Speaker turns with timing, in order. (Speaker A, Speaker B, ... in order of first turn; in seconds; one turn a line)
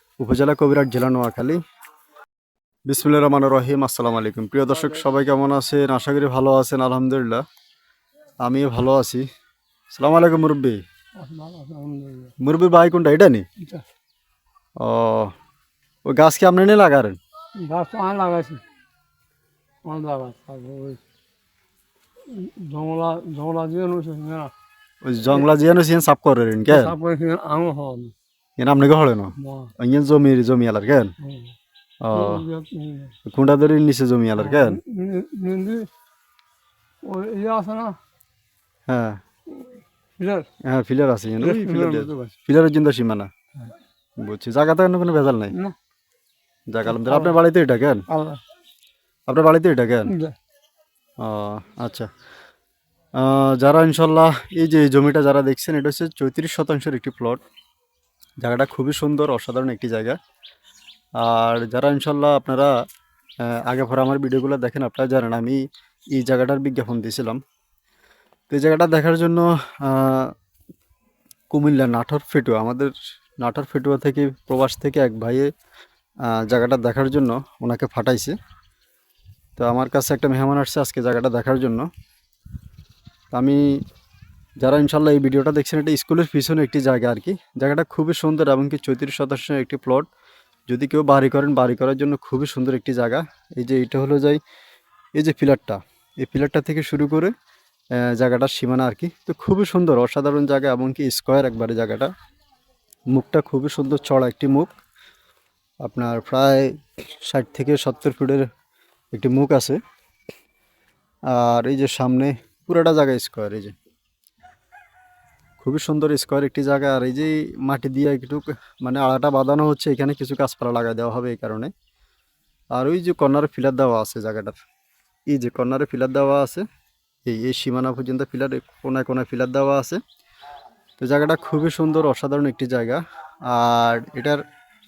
Speaker A: 0.2-1.6
Speaker A: 2.9-7.4
Speaker A: 8.4-9.2
Speaker A: 9.9-10.8
Speaker B: 11.2-12.3
Speaker A: 12.4-13.4
Speaker A: 14.8-15.3
Speaker A: 16.1-17.2
Speaker B: 17.6-18.6
Speaker B: 19.8-21.0
Speaker B: 22.3-24.5
Speaker A: 25.0-26.9
Speaker B: 26.7-28.1
Speaker A: 28.6-31.1
Speaker B: 29.4-29.7
Speaker B: 31.2-31.5
Speaker A: 32.0-32.5
Speaker B: 32.1-33.1
Speaker A: 33.2-34.8
Speaker B: 34.4-35.9
Speaker B: 37.0-38.0
Speaker A: 38.9-39.2
Speaker B: 39.5-40.5
Speaker A: 40.6-43.3
Speaker B: 41.4-42.3
Speaker A: 44.2-45.5
Speaker A: 46.7-48.0
Speaker B: 46.9-47.4
Speaker B: 48.1-48.4
Speaker A: 49.3-50.1
Speaker B: 50.1-50.4
Speaker A: 51.2-52.1
Speaker A: 53.1-57.4
Speaker A: 58.4-60.2
Speaker A: 61.2-62.7
Speaker A: 63.4-65.6
Speaker A: 66.1-67.4
Speaker A: 68.5-70.3
Speaker A: 71.5-75.5
Speaker A: 76.2-78.3
Speaker A: 79.6-81.9
Speaker A: 83.3-83.8
Speaker A: 84.6-90.1
Speaker A: 90.7-94.4
Speaker A: 95.2-97.3
Speaker A: 97.9-102.1
Speaker A: 103.1-104.7
Speaker A: 105.8-108.5
Speaker A: 109.1-109.8
Speaker A: 111.3-113.7
Speaker A: 115.6-121.7
Speaker A: 122.7-124.6
Speaker A: 125.3-126.6
Speaker A: 127.2-130.0
Speaker A: 131.0-134.4